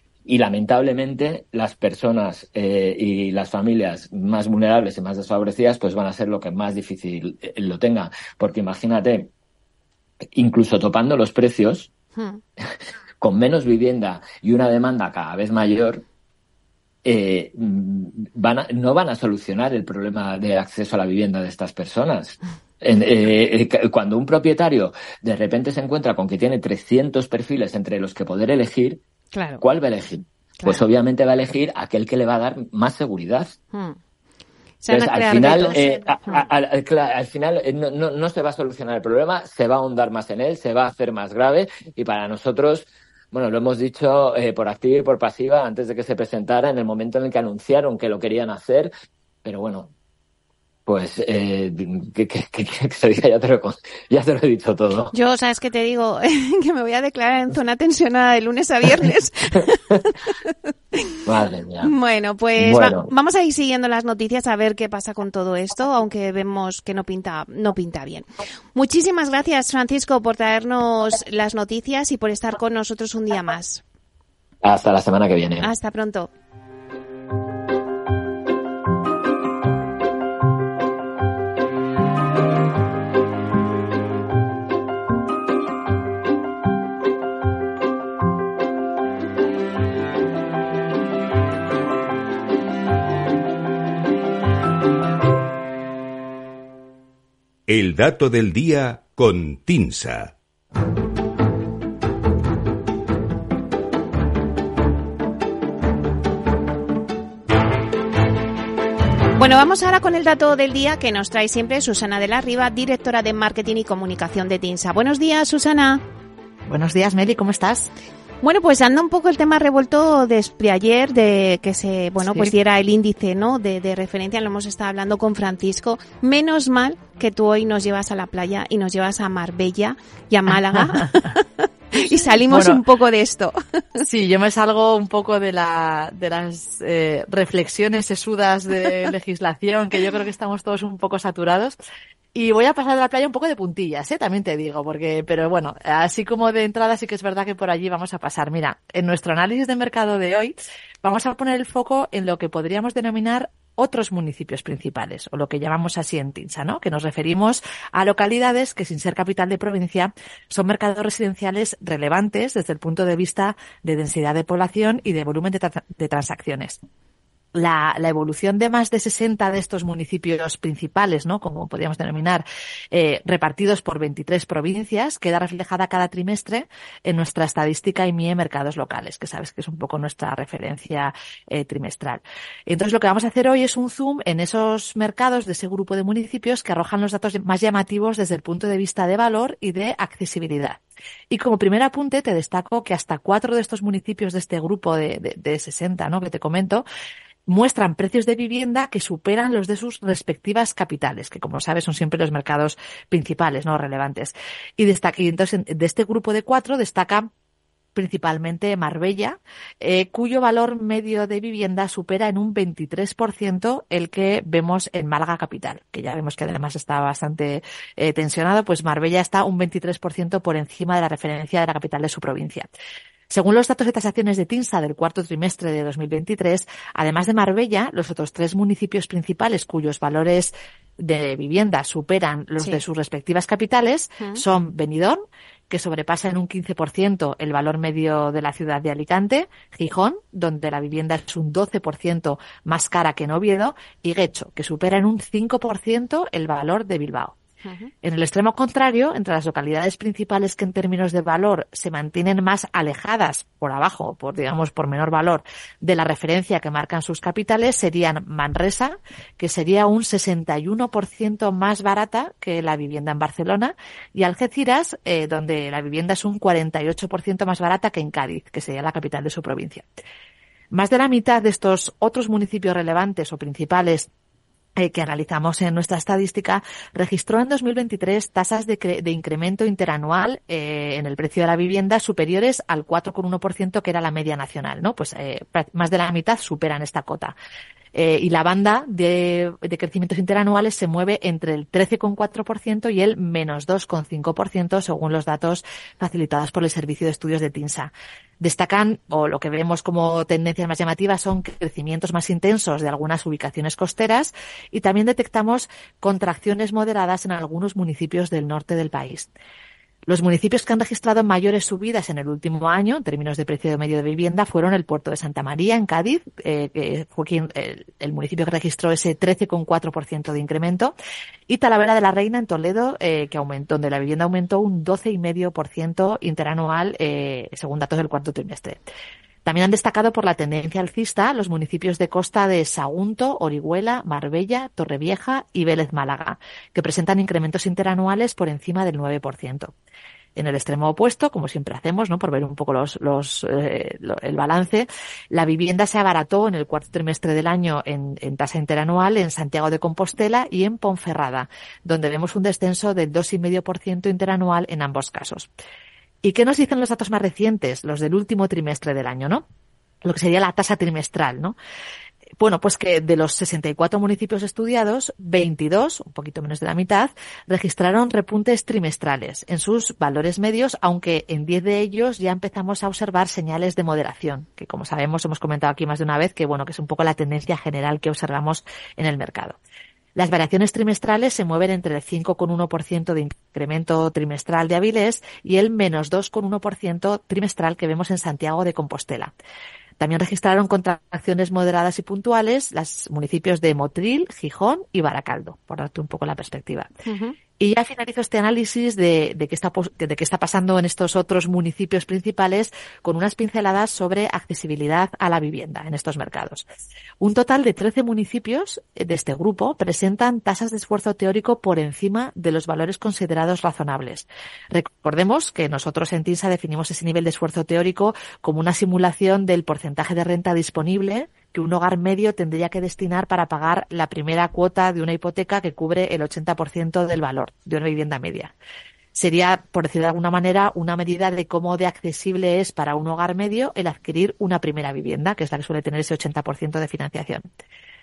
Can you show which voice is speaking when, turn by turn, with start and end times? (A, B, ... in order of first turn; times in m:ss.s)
0:00.3-0:09.3 A
0:10.3-0:11.9 A
0:12.2-0:12.4 B
0:13.2-0:16.0 A
0:17.0-0:29.0 A
0:29.3-0:29.6 B
0:29.6-0:33.6 A
0:34.8-0:36.5 B
0:34.9-0:48.9 A
0:49.4-0:49.9 A
0:50.9-0:55.1 A
0:55.1-1:01.2 B
1:01.2-1:01.9 A
1:01.8-1:13.8 B
1:02.6-1:03.1 A
1:14.6-1:15.7 A
1:15.6-1:16.3 B
1:37.7-1:40.3 C
1:49.4-1:56.0 B
1:56.7-1:57.9 D
1:58.4-2:14.0 B
2:02.2-2:02.5 D
2:10.8-2:11.0 D
2:12.5-2:12.8 D
2:14.0-2:21.8 D
2:22.3-2:46.8 D
2:47.5-3:16.8 D
3:17.5-3:27.3 D
3:28.0-3:42.7 D
3:43.3-4:07.4 D
4:07.6-4:07.9 B
4:08.0-4:29.9 D
4:30.7-4:34.1 D
4:34.8-4:47.4 D
4:47.9-5:09.3 D
5:10.1-5:21.0 D
5:21.5-5:28.8 D
5:29.4-5:39.7 D
5:40.4-5:55.5 D
5:56.2-5:59.5 D
6:00.0-6:01.6 D
6:02.4-6:19.6 D
6:20.2-6:29.3 D
6:30.0-6:36.9 D
6:37.1-6:37.4 B
6:37.6-6:46.7 D
6:47.2-7:08.6 D
7:09.2-7:17.5 D